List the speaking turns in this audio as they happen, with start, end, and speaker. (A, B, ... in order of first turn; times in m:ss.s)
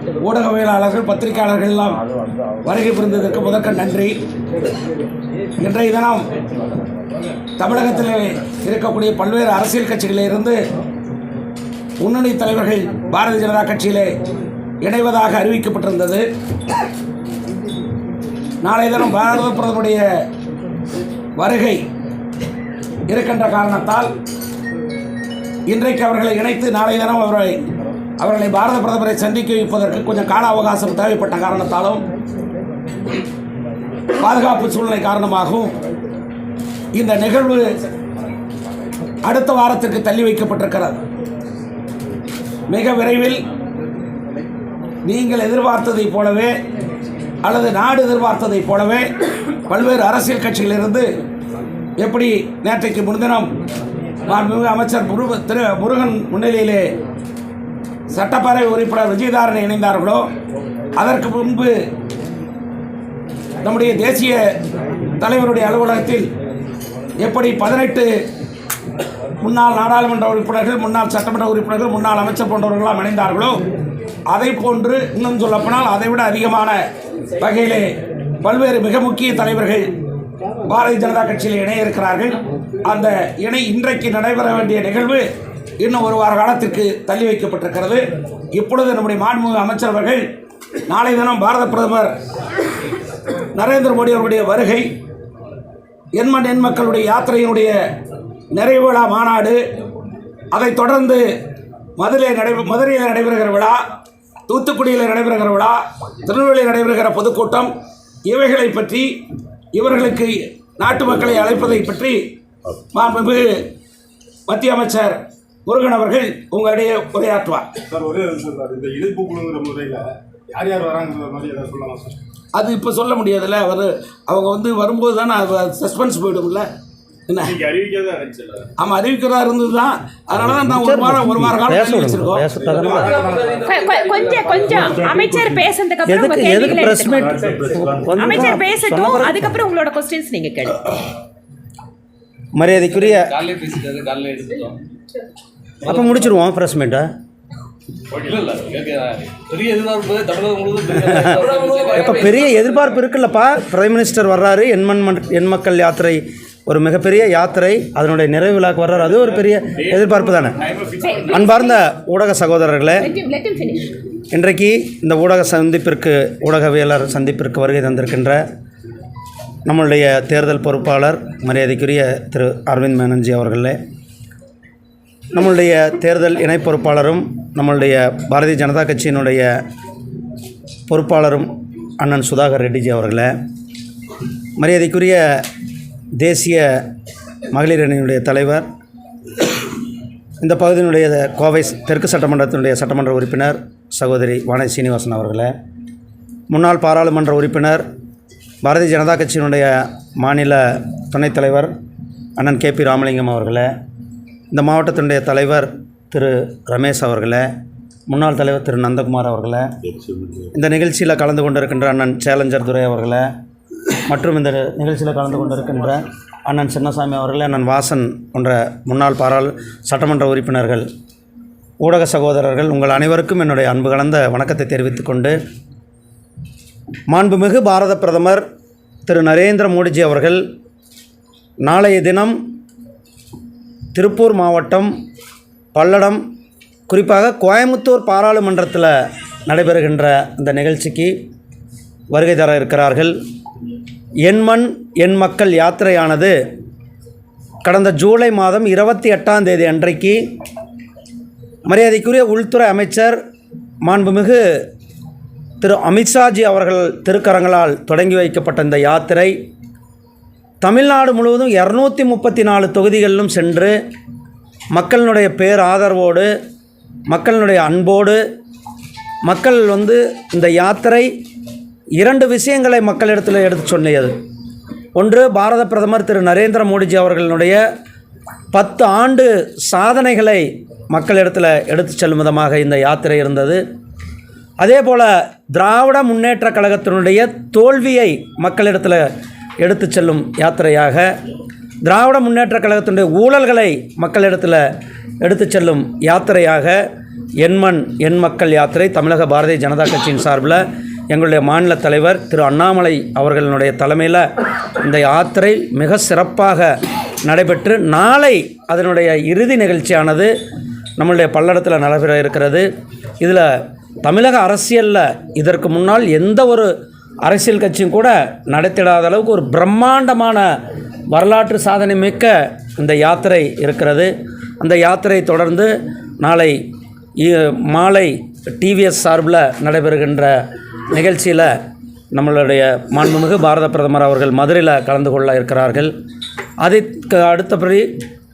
0:00.2-0:02.0 A
0:02.6-0:04.2 A
0:05.6-0:06.2 A
0:07.6-0:10.6 A
0:12.0-0:14.1 A
0:14.8-0:16.2 A
0:18.6-0:20.0 A
0:21.4-0:21.8 A
0:23.1-0:24.1 A
0:25.7-0:27.6 A
0:28.2-0:32.0 A
0:34.2-0:35.7 A
0:36.9-0:37.7 A
0:39.2-0:41.0 A
0:42.7-0:43.4 A
0:45.0-0:46.5 A
0:47.4-0:49.1 A
0:49.7-0:51.1 A
0:52.0-0:53.5 A
0:54.2-0:56.8 A
0:58.1-1:00.2 A
1:01.0-1:01.7 A
1:03.6-1:04.4 A
1:05.2-1:06.3 A
1:07.2-1:08.1 A
1:09.4-1:13.6 A
1:14.3-1:16.8 A
1:17.4-1:17.9 A
1:18.4-1:19.9 A
1:20.6-1:25.2 A
1:25.8-1:30.2 A
1:30.9-1:32.1 A
1:33.5-1:34.9 A
1:36.1-1:37.7 A
1:38.5-1:39.6 A
1:40.5-1:41.2 A
1:42.0-1:43.8 A
1:44.5-1:47.7 A
1:48.2-1:49.1 A
1:49.7-1:52.2 A
1:52.9-1:53.6 A
1:54.5-1:57.7 A
1:57.9-2:02.2 B
2:02.5-2:06.7 A
2:07.3-2:07.6 A
2:07.7-2:08.6 B
2:08.8-2:12.4 A
2:10.6-2:13.1 C
2:12.7-2:13.6 D
2:13.6-2:17.3 E
2:16.0-2:19.5 C
2:18.1-2:20.8 E
2:22.5-2:23.3 C
2:22.9-2:24.8 D
2:25.8-2:27.1 C
2:25.8-2:26.4 D
2:28.2-2:33.0 D
2:31.0-2:31.4 C
2:31.9-2:40.6 C
2:41.0-2:41.8 E
2:41.3-2:43.1 C
2:43.0-2:43.9 E
2:44.3-2:48.4 C
2:49.6-2:53.8 C
2:55.3-2:59.6 C
3:00.9-3:03.3 C
3:04.6-3:05.2 C
3:06.2-3:06.8 C
3:07.5-3:08.6 C
3:10.4-3:15.5 C
3:16.5-3:17.8 C
3:18.6-3:21.7 C
3:22.4-3:23.7 C
3:24.5-3:27.5 C
3:28.1-3:29.7 C
3:30.5-3:33.3 C
3:34.0-3:40.8 C
3:41.8-3:45.4 C
3:47.1-3:48.4 C
3:49.0-3:50.4 C
3:51.6-3:52.4 C
3:53.9-3:54.9 C
3:55.7-3:56.2 C
3:56.9-3:58.9 C
3:59.5-4:01.1 C
4:02.1-4:03.2 C
4:04.2-4:06.3 C
4:07.6-4:10.2 C
4:11.6-4:13.2 C
4:13.8-4:14.4 C
4:15.6-4:19.3 C
4:20.6-4:23.8 C
4:24.7-4:26.3 C
4:27.1-4:28.2 C
4:29.2-4:31.1 C
4:32.0-4:34.1 C
4:35.0-4:37.6 C
4:38.5-4:43.6 C
4:44.6-4:49.0 C
4:49.6-4:51.1 C
4:51.8-4:54.6 C
4:55.2-4:56.8 C
4:57.4-5:04.3 C
5:04.8-5:06.7 C
5:07.2-5:10.3 C
5:11.0-5:12.7 C
5:13.2-5:13.5 C
5:14.0-5:16.7 C
5:17.2-5:20.5 C
5:21.1-5:26.6 C
5:27.2-5:30.4 C
5:30.9-5:31.5 C
5:32.1-5:35.9 C
5:36.6-5:37.9 C